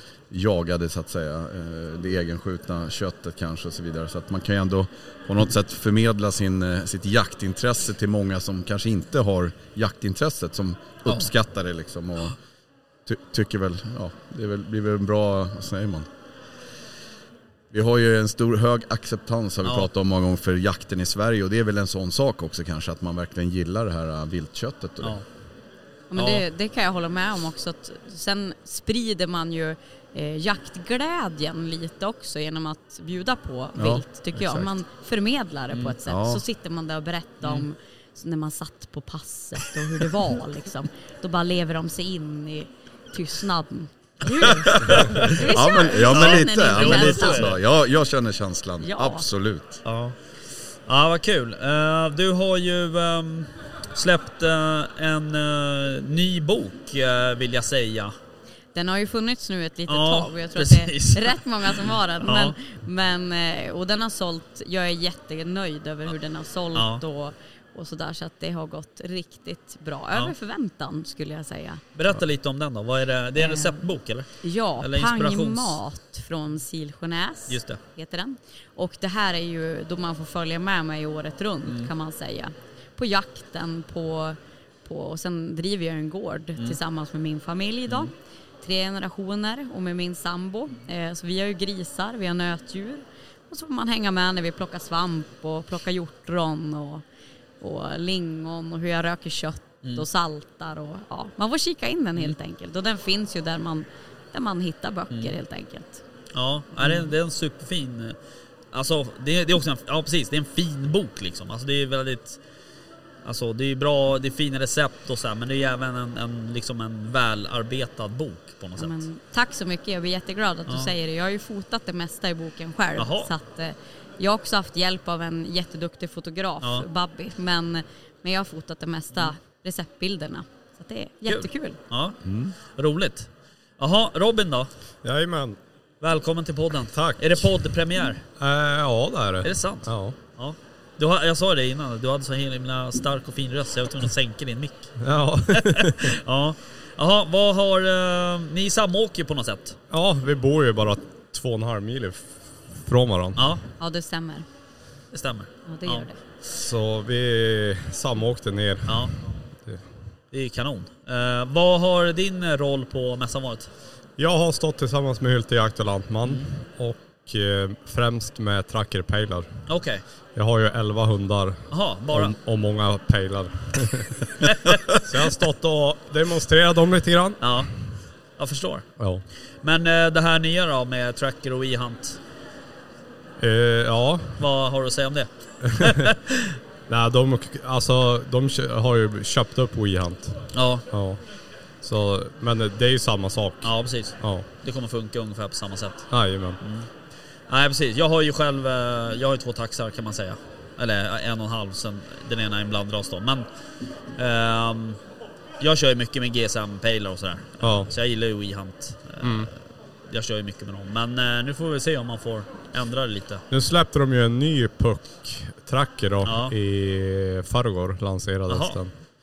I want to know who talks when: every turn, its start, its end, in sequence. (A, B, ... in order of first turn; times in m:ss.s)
0:00.3-0:12.4 A
0:13.1-0:16.1 A
0:17.7-0:25.2 A
0:19.6-0:19.9 B
0:26.1-0:47.6 C
0:26.1-0:26.4 B
0:33.8-0:34.0 A
0:34.3-0:34.8 B
0:35.7-0:36.0 B
0:36.1-0:36.4 A
0:44.8-0:49.8 A
0:44.8-0:45.4 B
0:46.1-0:47.6 B
0:48.8-0:49.2 C
0:49.8-0:50.2 B
0:50.9-0:58.1 B
0:58.7-1:11.8 C
0:59.9-1:02.6 B
1:06.8-1:07.0 B
1:11.9-1:14.3 B
1:13.4-1:13.8 C
1:14.4-1:37.0 C
1:14.8-1:15.8 B
1:17.5-1:17.8 B
1:37.6-1:46.0 C
1:45.1-1:45.4 B
1:46.3-1:48.2 B
1:48.7-1:52.4 B
1:53.2-1:59.1 B
1:58.8-2:11.8 C
2:03.0-2:03.3 B
2:11.2-2:12.2 B
2:12.2-2:12.6 A
2:12.8-2:13.3 B
2:13.8-2:14.7 B
2:15.0-2:15.6 D
2:16.0-2:18.2 B
2:16.9-2:17.5 D
2:18.4-2:20.2 D
2:19.4-2:24.9 B
2:25.0-2:26.1 D
2:25.6-2:29.8 B
2:29.9-2:33.5 D
2:33.4-2:33.6 B
2:33.8-2:34.4 C
2:35.1-2:36.1 B
2:35.6-2:36.2 C
2:36.5-2:39.1 D
2:38.9-2:39.1 B
2:40.3-2:43.7 B
2:44.2-2:49.5 D
2:49.7-2:50.0 B
2:50.3-2:54.3 D
2:51.7-2:52.3 B
2:54.4-2:54.8 B
2:55.0-2:57.6 D
2:57.4-2:57.7 B
2:58.4-2:58.9 B
2:59.0-2:59.2 D
2:59.6-3:02.2 B
3:03.4-3:04.4 D
3:04.4-3:06.6 B
3:06.9-3:10.3 D
3:10.5-3:10.9 B
3:10.9-3:11.2 D
3:11.8-3:14.4 D
3:13.6-3:16.1 B
3:16.1-3:16.6 D
3:16.6-3:16.9 B
3:17.5-3:23.4 B
3:24.2-3:25.0 B
3:25.6-3:29.5 B
3:27.6-3:27.9 D
3:29.2-3:29.5 D
3:30.1-3:33.4 B
3:33.5-3:38.9 D
3:36.2-3:36.6 B
3:38.5-3:38.8 B